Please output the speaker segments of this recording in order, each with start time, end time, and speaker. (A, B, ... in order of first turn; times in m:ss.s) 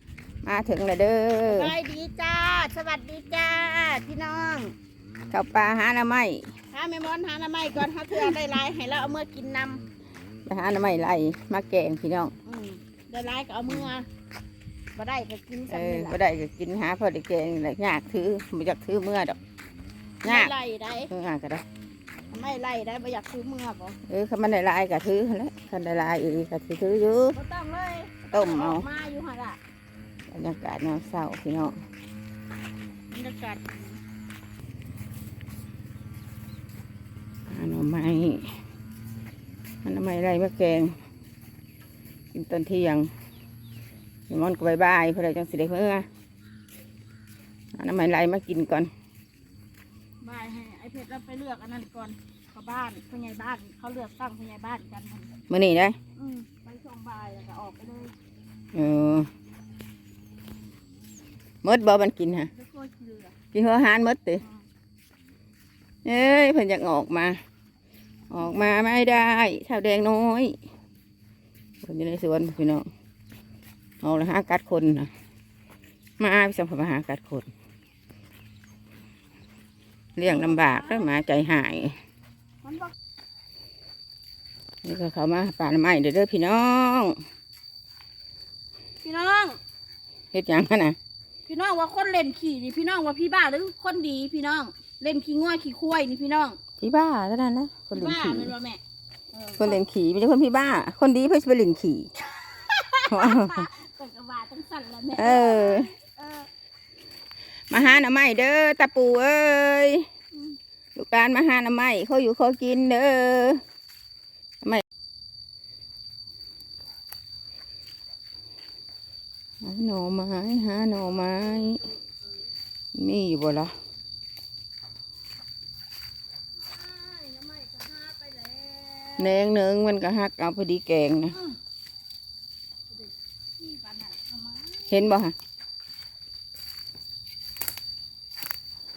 0:00.4-0:01.7 A
0:01.4-0:04.7 B
0:05.3-0:06.4 A
0:06.7-0:09.8 B
0:10.4-0:12.3 A
0:12.4-0:14.1 B
0:14.9-0:16.2 B
0:15.7-0:19.4 A
0:20.2-0:21.1 B
0:20.2-0:20.5 A
0:21.1-0:21.6 A
0:22.3-0:24.0 B
0:24.0-0:27.4 A
0:27.3-0:29.6 B
0:28.3-0:28.8 A
0:30.3-0:31.7 A
0:33.1-0:34.0 B
0:37.5-0:38.5 A
0:39.8-0:40.9 A
0:42.3-0:43.1 A
0:44.3-0:46.0 A
0:47.7-0:48.9 A
0:50.2-0:55.3 B
0:55.5-0:56.0 A
0:56.2-0:58.1 B
0:58.7-0:59.3 A
1:01.6-1:02.5 A
1:02.5-1:03.3 B
1:03.5-1:04.4 A
1:06.0-1:07.4 A
1:08.3-1:10.6 A
1:11.8-1:12.8 A
1:14.0-1:15.1 A
1:16.2-1:17.5 A
1:20.2-1:22.0 A
1:20.2-1:20.9 B
1:22.6-1:22.9 B
1:24.8-1:27.2 A
1:29.0-1:29.6 B
1:30.3-1:31.0 A
1:31.5-1:36.6 B
1:36.8-1:38.5 A
1:37.9-1:38.8 B
1:39.3-1:39.8 B
1:39.6-1:42.1 A
1:42.3-1:46.5 B
1:43.1-1:43.7 A
1:45.2-1:45.9 A
1:47.7-1:50.1 A
1:51.0-1:53.6 A
1:59.6-2:01.9 A
2:02.9-2:03.7 A
2:06.6-2:09.4 B
2:09.2-2:11.4 A
2:13.0-2:14.9 B
2:14.9-2:15.3 A